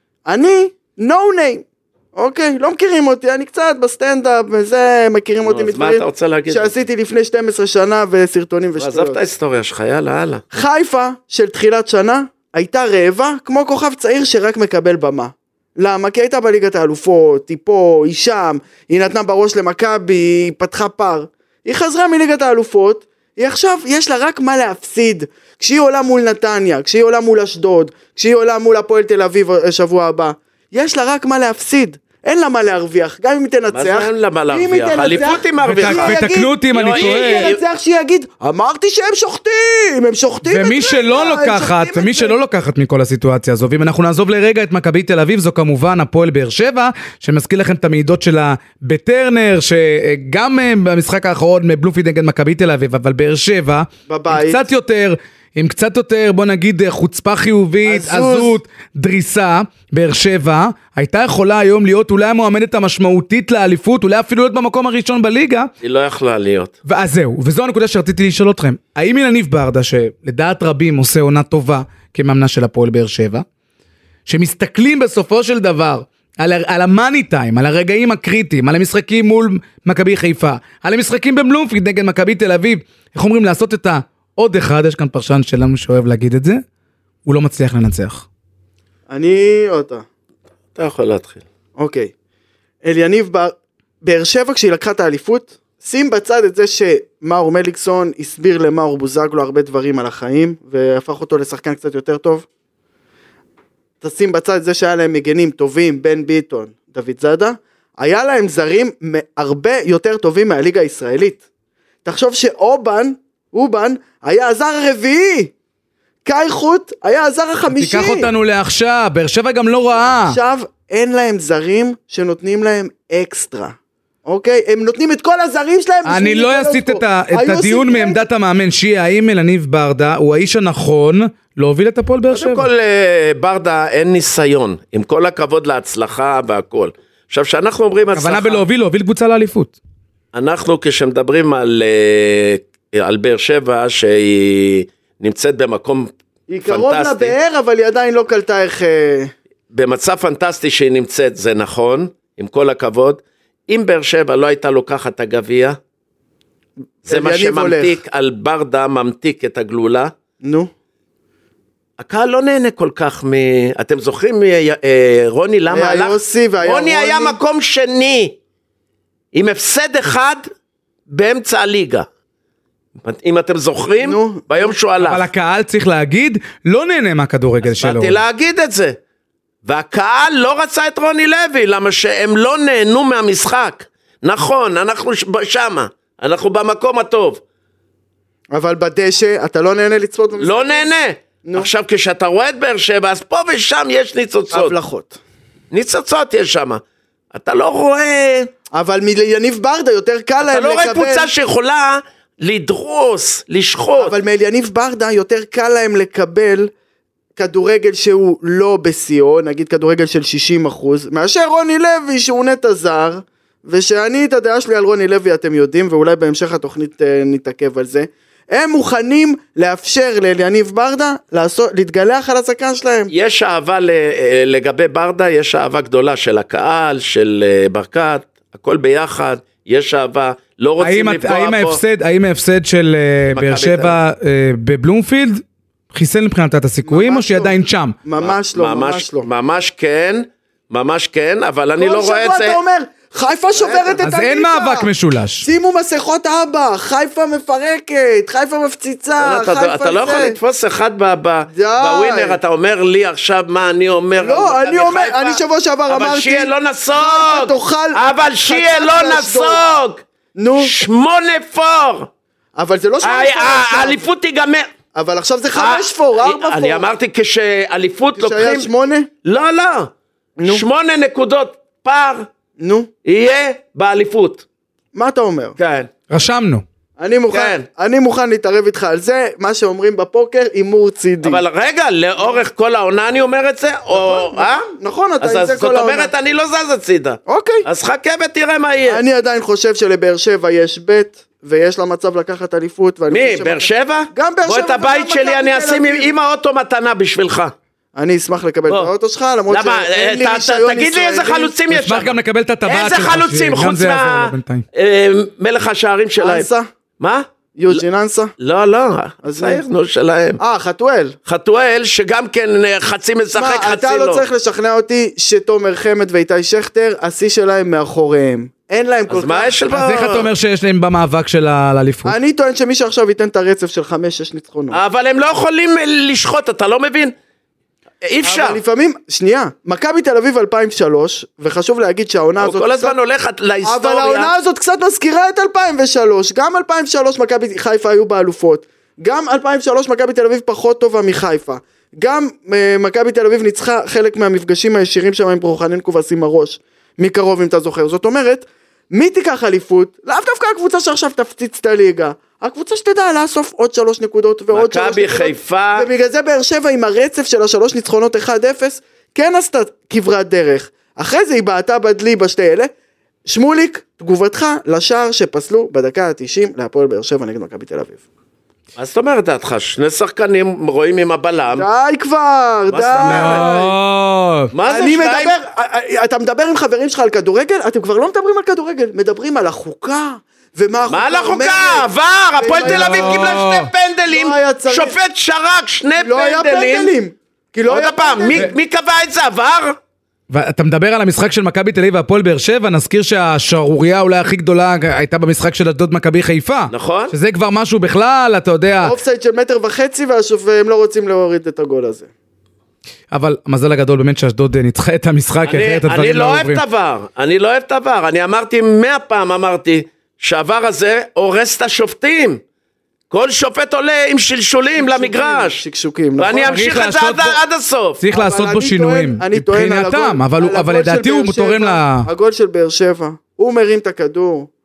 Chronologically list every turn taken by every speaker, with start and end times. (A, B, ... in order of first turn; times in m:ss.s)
0:00.3-0:09.2 A
0:05.4-0:06.7 B
0:08.8-0:10.4 B
0:10.5-0:42.4 A
0:33.7-0:36.2 B
0:35.6-0:37.5 C
0:36.7-0:37.6 B
0:40.4-1:05.7 C
0:54.1-0:54.6 A
0:57.8-0:58.6 A
1:05.8-1:06.8 B
1:06.9-1:13.4 C
1:14.3-1:26.6 C
1:27.3-1:28.3 C
1:29.1-1:30.0 A
1:30.8-1:31.4 B
1:31.8-1:32.1 A
1:32.8-1:42.5 A
1:44.0-1:51.4 A
1:52.0-1:55.5 A
1:56.2-1:58.3 A
1:57.7-2:00.4 C
2:00.0-2:08.2 A
2:06.0-2:12.7 C
2:12.3-2:18.6 B
2:18.1-2:19.8 C
2:20.3-2:26.1 B
2:26.5-2:29.3 A
2:26.6-2:27.4 B
2:29.7-2:35.8 B
2:37.1-2:38.0 A
2:37.1-2:40.1 B
2:40.4-2:40.7 A
2:42.0-2:48.4 B
2:45.7-2:47.4 A
2:49.3-2:50.5 B
2:51.1-2:52.1 B
2:53.0-2:55.2 B
2:54.0-2:54.7 A
2:55.0-2:58.2 C
2:57.6-2:59.0 B
2:59.6-3:07.4 B
3:08.5-3:10.9 A
3:10.4-3:14.7 B
3:11.4-3:11.7 A
3:14.5-3:15.2 A
3:15.7-3:16.8 B
3:17.3-3:18.5 B
3:18.7-3:21.3 A
3:20.4-3:24.2 B
3:24.0-3:26.7 A
3:27.4-3:43.1 A
3:43.1-3:51.8 B
3:50.8-3:58.0 C
3:53.3-3:54.0 B
3:56.8-3:59.3 A
3:58.2-4:02.6 B
4:01.8-4:04.9 A
4:03.5-4:04.0 B
4:04.0-4:05.5 C
4:05.4-4:10.4 A
4:09.2-4:20.0 B
4:11.5-4:12.4 A
4:14.2-4:19.6 A
4:20.4-4:20.7 A
4:20.6-4:22.1 B
4:22.6-4:24.0 A
4:23.0-4:24.7 B
4:25.0-4:26.9 A
4:25.5-4:28.7 B
4:28.2-4:29.1 A
4:29.2-4:29.9 B
4:30.4-4:30.6 A
4:30.5-4:32.3 B
4:32.6-4:32.9 A
4:33.0-4:34.4 B
4:34.9-4:35.6 A
4:35.6-4:35.9 B
4:36.1-4:36.6 C
4:37.0-4:41.4 A
4:37.3-4:37.7 B
4:41.2-4:44.7 B
4:43.9-4:46.1 A
4:45.2-4:49.0 B
4:47.3-4:47.7 A
4:48.9-4:56.1 A
4:53.1-4:57.5 B
4:58.0-5:01.6 A
4:59.5-5:06.5 B
5:01.7-5:04.6 C
5:06.2-5:06.7 A
5:07.0-5:07.8 B
5:07.6-5:08.3 A
5:08.4-5:10.4 B
5:09.2-5:09.6 A
5:10.4-5:11.2 A
5:11.3-5:14.2 B
5:13.3-5:19.6 A
5:19.1-5:20.3 B
5:19.7-5:22.2 C
5:22.0-5:24.8 A
5:24.7-5:27.2 B
5:28.0-5:28.6 B
5:28.2-5:33.0 A
5:32.4-5:34.3 B
5:33.6-6:02.7 A
5:54.5-5:55.9 B
6:03.3-6:08.0 A
6:08.8-6:11.6 B
6:11.6-6:13.8 A
6:12.7-6:13.5 B
6:13.0-6:14.5 C
6:14.5-6:15.4 B
6:14.7-6:23.4 A
6:20.9-6:26.9 B
6:22.6-6:23.7 C
6:24.1-6:25.0 A
6:26.0-6:28.5 A
6:27.7-6:29.8 B
6:30.3-6:39.0 C
6:36.7-6:37.1 B
6:38.8-6:42.1 A
6:43.1-6:46.6 C
6:45.4-6:52.4 B
6:53.1-6:55.6 B
6:54.8-6:56.6 A
6:56.2-6:58.0 B
6:56.4-6:57.4 C
6:58.0-7:02.1 C
6:58.1-7:04.5 A